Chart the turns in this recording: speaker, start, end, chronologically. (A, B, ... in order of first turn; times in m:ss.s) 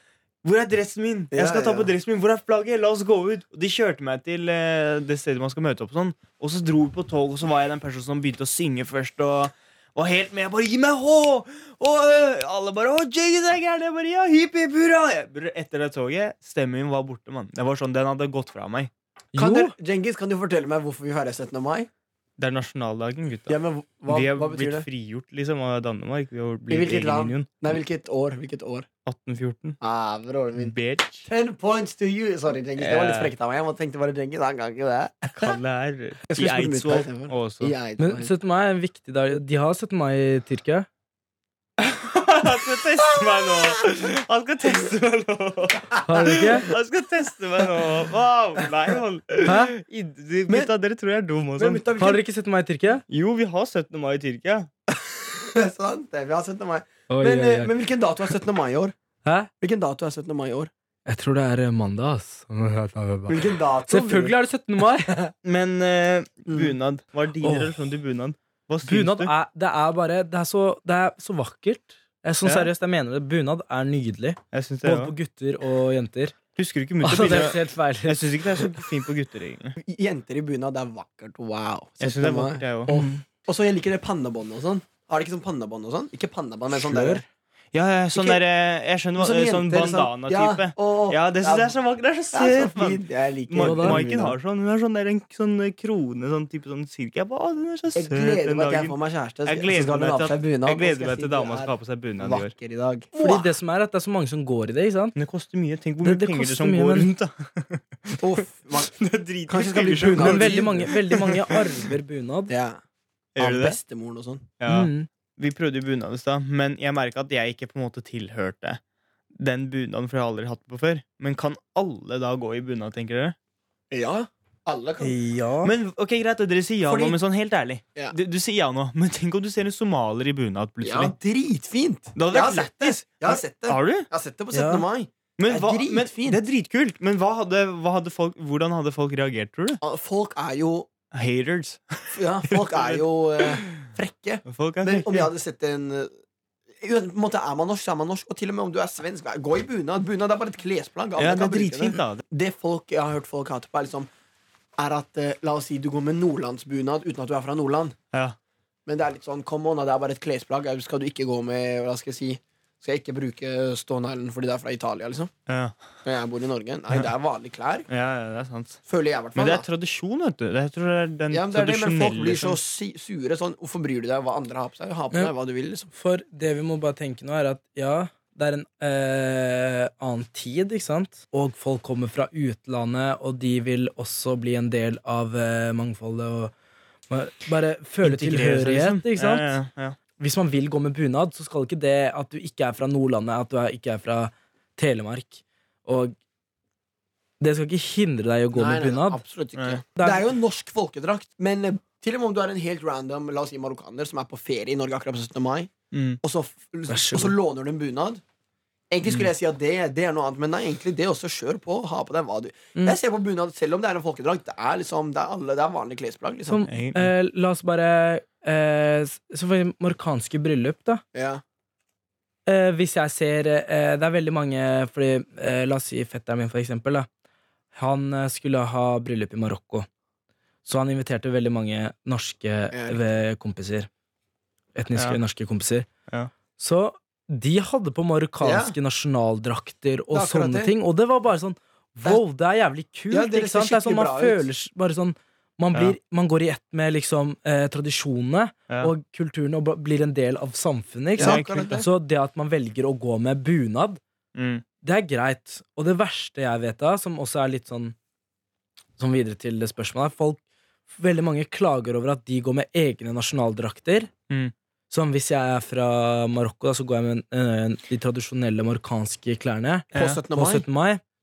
0:00.4-0:18.9 A
0:01.3-0:01.9 B
0:19.3-0:19.7 C
0:19.4-0:21.9 B
0:22.4-0:27.8 A
0:23.5-0:24.9 B
0:26.7-0:28.9 B
0:29.0-0:29.8 A
0:29.8-0:30.7 B
0:30.6-0:31.3 A
0:31.2-0:35.6 B
0:32.8-0:33.3 A
0:35.3-0:37.7 A
0:36.3-0:38.3 B
0:38.0-0:40.9 C
0:41.8-0:51.8 A
0:46.0-0:46.7 C
0:49.4-0:49.7 C
0:51.6-0:52.2 B
0:52.0-0:53.0 C
0:53.1-0:54.7 A
0:54.9-0:58.9 B
0:57.1-0:57.7 C
0:59.2-0:59.5 C
0:59.6-1:00.7 B
1:01.0-1:05.2 C
1:03.3-1:04.4 B
1:05.1-1:05.3 B
1:05.4-1:09.3 A
1:06.5-1:06.7 B
1:07.4-1:07.7 C
1:08.8-1:16.4 C
1:12.4-1:12.7 A
1:14.5-1:15.1 A
1:16.6-1:19.8 A
1:17.0-1:18.7 C
1:19.8-1:27.2 B
1:22.0-1:23.1 A
1:22.9-1:23.2 C
1:26.7-1:27.2 C
1:27.7-1:38.9 A
1:28.1-1:28.4 B
1:29.2-1:31.7 B
1:32.3-1:34.4 B
1:33.6-1:34.0 C
1:37.9-1:43.5 B
1:39.4-1:42.5 A
1:43.1-1:45.1 C
1:45.2-1:51.6 A
1:46.0-1:47.1 C
1:48.2-1:48.9 B
1:49.5-1:51.2 B
1:50.0-1:52.5 C
1:52.5-1:52.8 B
1:53.4-1:53.8 A
1:53.4-1:54.5 B
1:54.6-1:58.8 A
1:54.6-1:55.1 C
1:59.4-2:03.4 A
2:03.9-2:05.2 B
2:05.0-2:05.7 C
2:05.6-2:11.1 A
2:06.8-2:07.2 B
2:10.8-2:16.4 B
2:12.1-2:14.1 A
2:14.5-2:14.8 C
2:15.4-2:19.8 A
2:19.8-2:20.9 B
2:21.1-2:23.9 A
2:22.1-2:26.1 B
2:24.5-2:25.3 A
2:26.8-2:34.1 B
2:31.2-2:32.2 A
2:34.8-2:38.0 B
2:38.8-2:45.3 B
2:45.5-2:45.8 A
2:46.0-2:47.8 B
2:47.9-2:48.8 A
2:48.9-2:49.6 B
2:49.4-2:52.6 A
2:51.3-2:55.9 B
2:55.9-3:06.5 C
3:07.1-3:09.5 C
3:08.0-3:10.0 A
3:10.2-3:16.1 C
3:17.4-3:19.2 C
3:18.5-3:28.2 B
3:19.6-3:19.8 A
3:20.0-3:20.2 C
3:25.9-3:26.2 A
3:26.9-3:27.3 C
3:28.9-3:36.6 B
3:36.5-3:41.0 C
3:36.7-3:37.1 A
3:41.1-3:41.4 B
3:42.5-3:47.1 C
3:47.7-3:49.9 C
3:50.6-3:53.9 C
3:52.7-3:53.0 B
3:54.7-3:55.9 C
3:54.9-3:55.2 A
3:56.6-4:14.0 C
3:58.4-3:58.8 B
4:00.1-4:00.7 B
4:03.1-4:04.5 B
4:11.2-4:11.9 B
4:11.2-4:11.8 A
4:14.3-4:14.6 A
4:14.8-4:17.9 C
4:19.0-4:24.1 C
4:24.9-4:31.0 C
4:29.9-4:30.6 B
4:29.9-4:30.2 A